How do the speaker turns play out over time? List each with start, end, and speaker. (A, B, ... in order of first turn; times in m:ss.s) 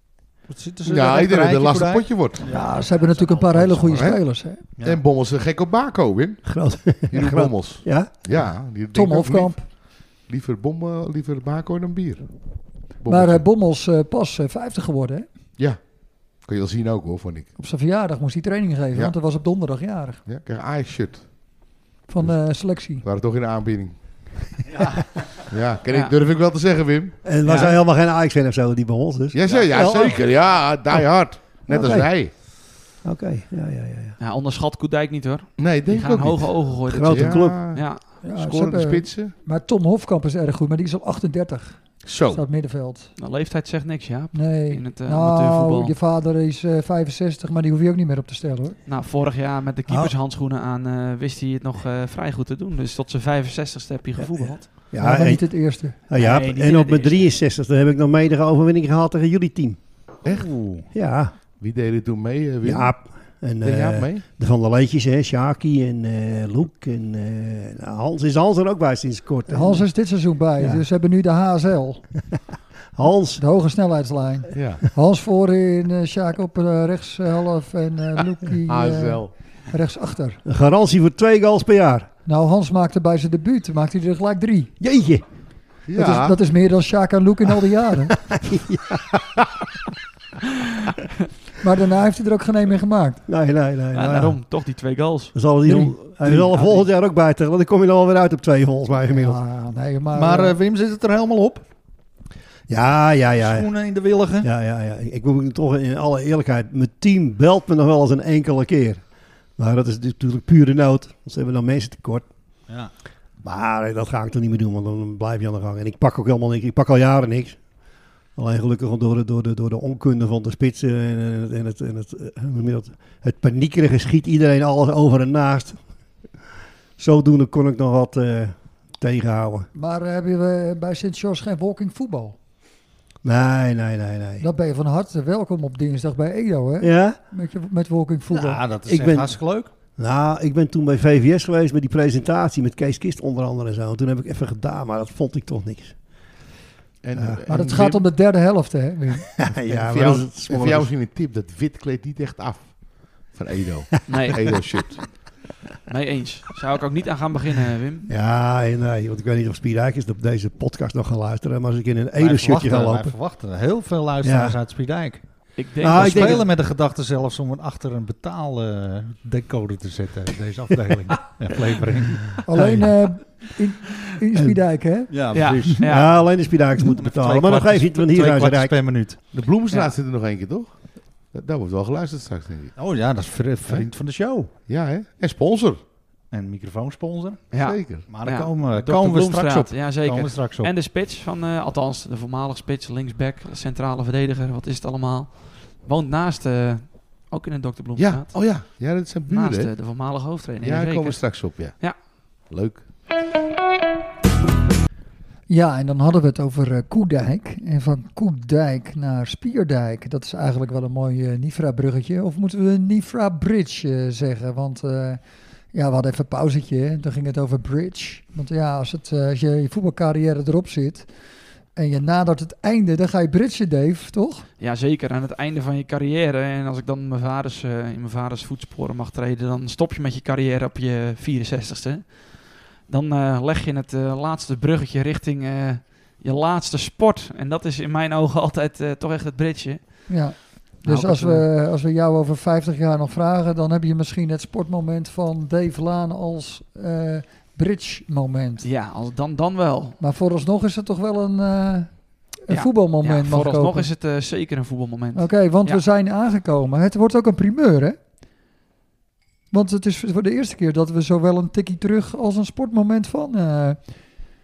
0:00.5-0:03.6 A
0:00.8-0:02.4 B
0:02.4-0:04.6 C
0:03.9-0:04.3 B
0:04.8-0:12.3 B
0:06.4-0:08.1 D
0:08.9-0:09.7 C
0:12.9-0:13.4 B
0:13.1-0:15.3 C
0:15.6-0:17.5 B
0:17.6-0:20.2 C
0:20.3-0:21.6 B
0:22.1-0:23.0 C
0:22.2-0:22.5 B
0:23.0-0:24.6 B
0:25.5-0:27.2 B
0:27.2-0:30.3 D
0:27.4-0:27.8 E
0:29.3-0:32.3 B
0:31.7-0:32.1 C
0:33.0-0:34.2 D
0:34.2-0:38.2 E
0:35.6-0:39.3 B
0:36.9-0:37.8 D
0:38.2-0:43.1 C
0:42.0-0:42.4 B
0:43.2-0:45.9 E
0:44.3-0:48.8 C
0:48.9-0:54.8 E
0:54.2-0:59.8 D
0:55.0-0:56.0 C
0:56.1-0:57.3 E
1:00.2-1:00.6 B
1:00.3-1:00.8 A
1:00.9-1:01.3 D
1:01.6-1:04.2 B
1:02.6-1:10.0 D
1:09.5-1:12.1 C
1:12.9-1:13.4 D
1:13.4-1:20.4 C
1:14.5-1:14.8 B
1:18.7-1:19.3 B
1:20.4-1:22.1 D
1:22.3-1:24.7 C
1:24.8-1:25.2 D
1:25.9-1:26.4 B
1:26.0-1:28.2 C
1:28.3-1:29.0 D
1:31.6-1:33.2 C
1:33.3-1:34.4 D
1:33.9-1:35.4 E
1:35.3-1:39.4 D
1:36.2-1:36.8 A
1:39.1-1:40.6 C
1:40.1-1:41.6 A
1:42.7-1:43.7 D
1:43.4-1:44.5 A
1:44.4-1:49.0 D
1:49.6-1:52.3 D
1:53.4-1:57.6 D
1:58.4-2:05.8 D
2:07.0-2:09.7 D
2:09.7-2:12.4 C
2:13.2-2:14.4 D
2:14.4-2:18.6 C
2:16.8-2:17.2 D
2:18.3-2:19.7 A
2:18.9-2:19.4 D
2:20.0-2:26.0 D
2:27.0-2:28.1 B
2:27.2-2:27.4 D
2:27.5-2:29.3 C
2:29.4-2:30.9 D
2:29.5-2:35.2 B
2:34.1-2:34.5 E
2:35.9-2:38.1 E
2:38.1-2:43.2 D
2:42.2-2:53.1 A
2:44.2-2:44.6 D
2:45.6-2:46.4 E
2:45.8-2:46.5 D
2:52.4-2:55.7 C
2:54.4-2:54.6 D
2:55.1-2:59.2 A
2:55.3-2:56.2 E
2:55.8-2:59.0 D
2:59.3-3:02.8 B
2:59.7-3:00.0 E
3:02.8-3:04.5 A
3:04.7-3:05.8 B
3:06.3-3:10.7 A
3:07.5-3:08.1 B
3:07.5-3:18.6 E
3:18.0-3:22.9 B
3:19.2-3:22.1 E
3:25.5-3:41.1 C
3:41.8-3:44.5 C
3:44.6-4:01.5 E
4:00.1-4:08.7 C
4:08.6-4:10.0 E
4:10.0-4:13.9 C
4:12.5-4:15.8 E
4:15.1-4:18.0 C
4:19.5-4:24.1 C